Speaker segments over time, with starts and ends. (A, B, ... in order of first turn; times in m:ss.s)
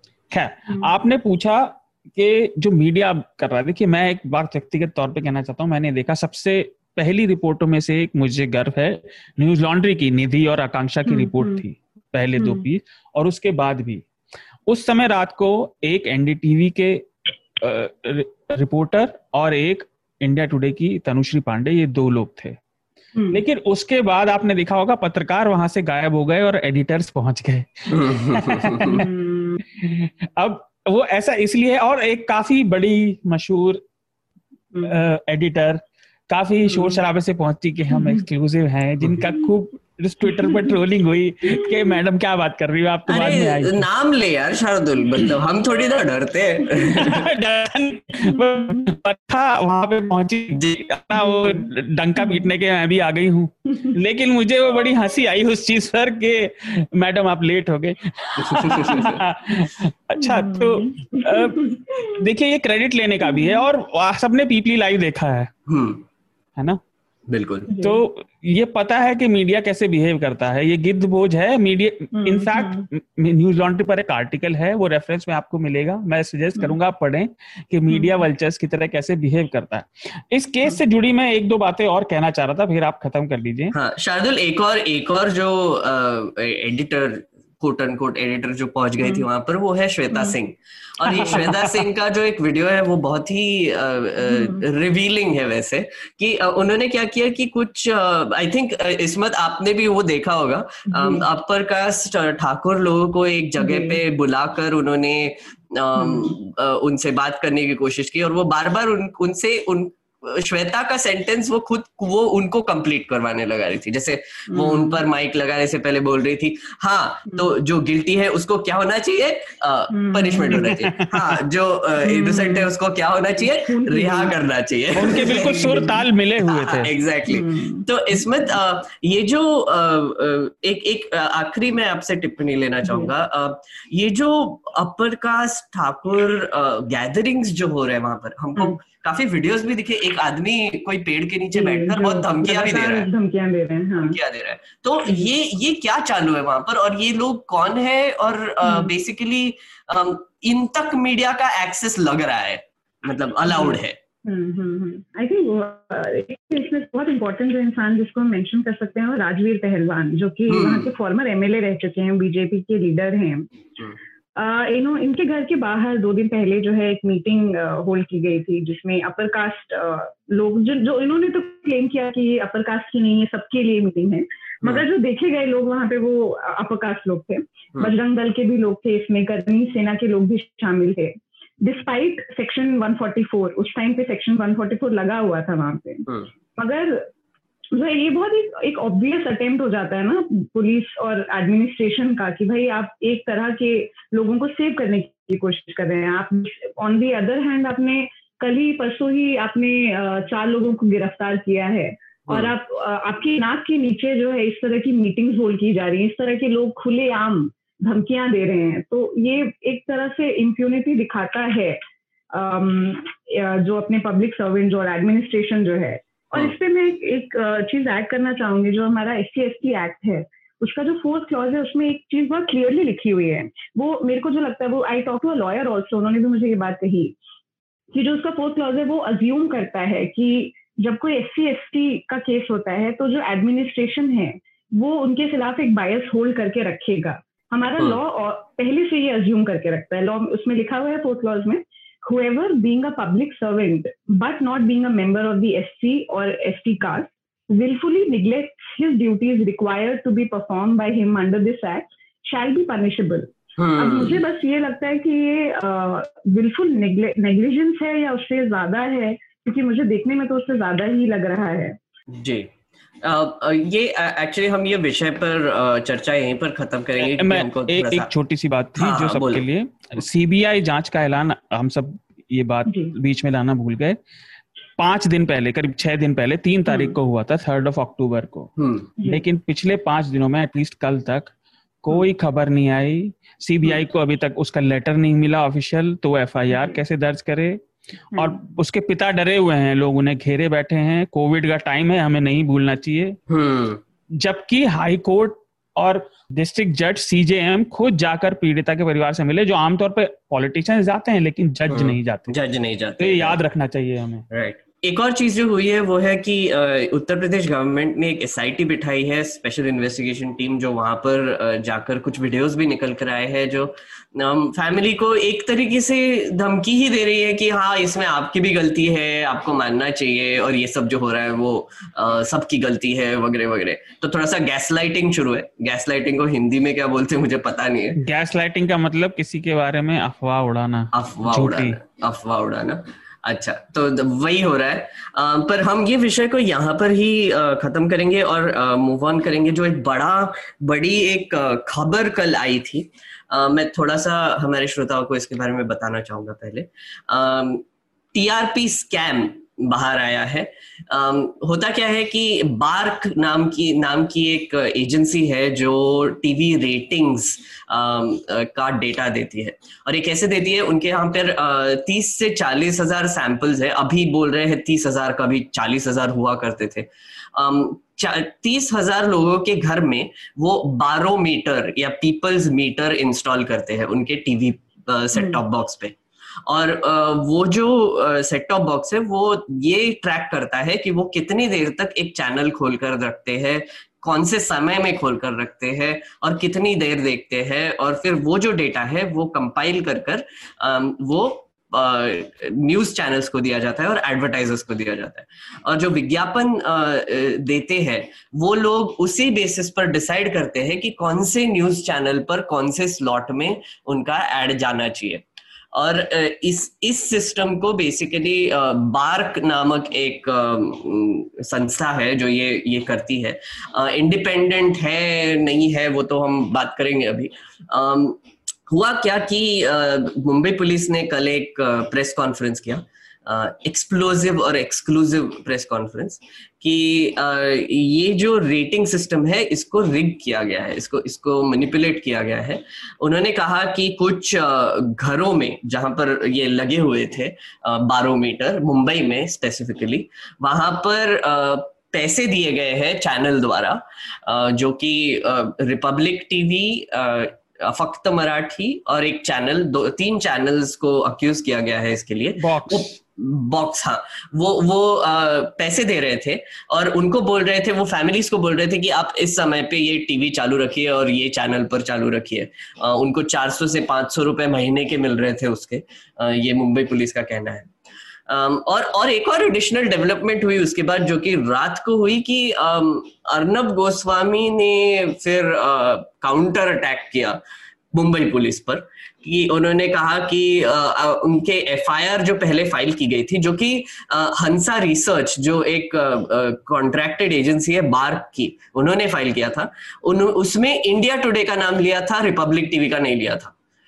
0:00.3-0:14.0 A
0:11.1-0:11.6 B
0:12.4-0:12.6 B
0:14.7-0:17.1 A
0:17.6-0:22.6 A
0:23.3-0:29.1 A
0:27.9-0:29.0 C
0:28.9-0:29.6 B
0:29.6-0:33.8 A
0:34.8-0:43.9 A
0:36.7-0:37.0 B
0:37.9-0:38.2 B
0:43.1-0:47.3 C
0:46.9-1:05.5 A
0:50.5-0:50.8 C
0:58.4-0:59.2 C
1:00.2-1:02.2 B
1:03.4-1:03.6 B
1:05.7-1:06.0 C
1:07.3-1:07.7 C
1:07.7-1:08.0 B
1:07.8-1:23.7 A
1:12.1-1:12.8 B
1:17.9-1:18.2 B
1:23.7-2:05.8 C
1:31.1-1:31.8 A
1:34.3-1:34.6 B
1:40.9-1:41.2 B
1:43.6-1:44.0 B
1:46.0-1:46.3 B
1:54.5-1:55.0 B
1:59.9-2:00.7 B
2:00.5-2:01.3 A
2:02.0-2:02.7 B
2:03.4-2:04.3 B
2:05.0-2:06.9 A
2:05.4-2:06.0 B
2:06.4-2:23.1 C
2:07.3-2:07.8 B
2:12.8-2:13.1 B
2:21.5-2:24.2 B
2:24.0-2:34.0 C
2:28.6-2:28.9 B
2:33.5-2:43.5 B
2:40.5-2:40.9 C
2:44.4-3:07.1 B
3:07.7-3:31.8 B
3:32.3-3:47.1 B
3:47.9-4:21.8 B
4:13.6-4:14.2 C
4:22.1-4:22.5 C
4:23.0-4:28.1 C
4:27.0-4:34.0 A
4:28.8-4:29.4 C
4:32.7-4:32.9 B
4:34.8-4:38.5 A
4:36.7-4:37.0 B
4:38.6-4:38.9 C
4:39.1-4:47.6 A
4:46.5-4:46.8 B
4:48.1-4:53.2 A
4:53.3-4:53.8 C
4:54.2-5:02.4 A
5:01.7-5:03.4 C
5:03.0-5:04.2 A
5:04.3-5:28.0 C
5:28.0-5:31.8 A
5:30.9-7:47.7 C
7:32.4-7:33.0 A
7:48.3-7:57.4 C
7:57.9-8:13.5 C